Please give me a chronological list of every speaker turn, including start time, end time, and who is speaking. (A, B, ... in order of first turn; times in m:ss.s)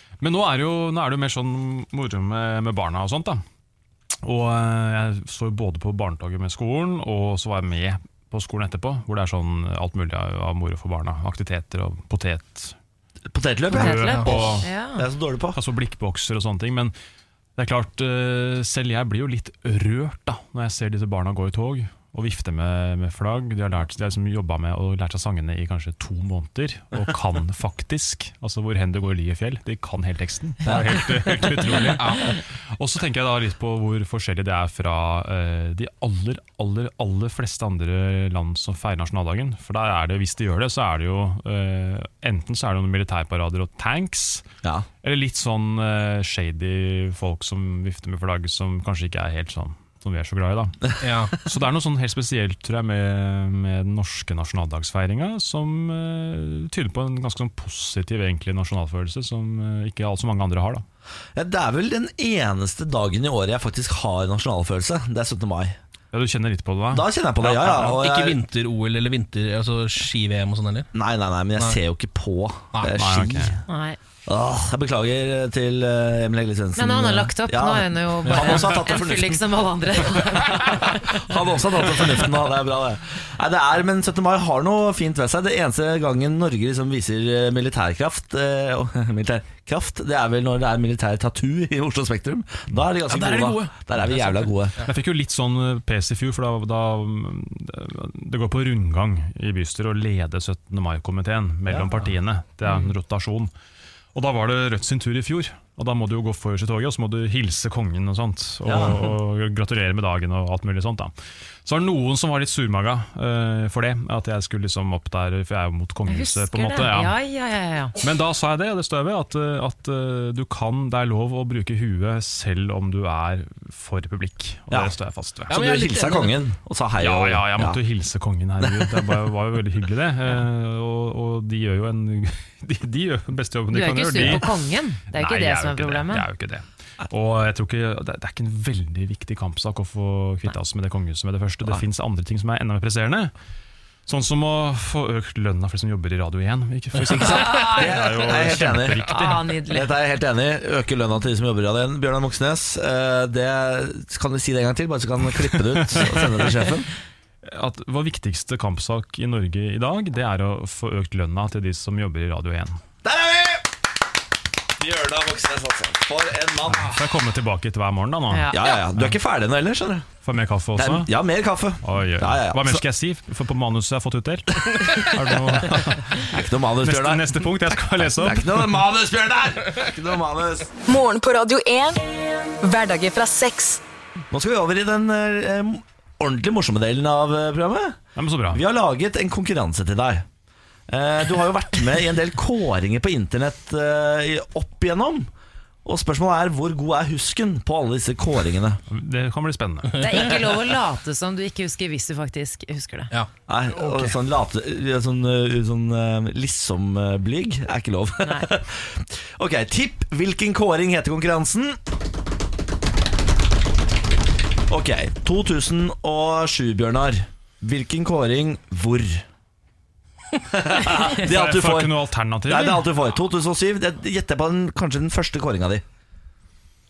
0:00.2-0:03.4 A
0:04.2-0:12.8 A
0:13.3-0:15.6 B
0:13.7-0:15.0 C
0:13.7-0:14.7 A
0:15.5-0:16.9 A
0:17.6-0:44.5 A
0:31.9-0:32.3 D
0:45.0-1:00.8 A
0:51.0-0:51.4 D
1:01.4-1:05.8 B
1:06.1-1:08.0 A
1:06.9-1:08.4 B
1:07.7-1:10.9 D
1:10.9-1:13.6 B
1:12.9-1:13.6 A
1:13.7-1:14.0 C
1:14.3-1:19.5 B
1:16.8-1:21.2 C
1:18.2-1:18.8 D
1:20.4-1:34.8 B
1:33.1-1:34.9 D
1:34.8-1:43.5 A
1:41.7-1:42.1 B
1:44.1-1:51.1 A
1:48.6-1:49.1 B
1:51.6-1:57.2 A
1:56.1-1:58.0 C
1:58.0-2:05.6 A
2:05.5-2:06.4 D
2:05.5-2:07.8 B
2:07.0-2:23.3 A
2:13.7-2:16.3 C
2:24.1-2:29.6 A
2:27.2-2:36.9 B
2:27.4-2:27.8 C
2:29.1-2:29.9 C
2:35.8-2:36.5 A
2:37.4-2:42.8 A
2:43.0-2:43.7 B
2:44.8-2:46.9 B
2:46.7-2:49.2 A
2:48.3-2:48.7 C
2:48.5-2:50.1 B
2:50.2-2:51.1 A
2:50.8-2:52.8 B
2:51.8-2:58.9 A
2:56.3-2:57.4 B
2:58.2-3:00.7 B
3:00.9-3:02.0 E
3:02.6-3:03.8 E
3:04.3-3:08.0 B
3:08.2-3:08.6 A
3:08.5-3:10.2 B
3:10.9-3:15.3 B
3:15.8-3:18.8 B
3:18.9-3:20.1 A
3:20.0-3:20.3 D
3:20.0-3:23.1 C
3:23.1-3:24.1 D
3:23.5-3:31.8 B
3:28.2-3:28.5 C
3:34.7-3:39.3 B
3:40.5-3:45.8 B
3:41.1-3:42.9 A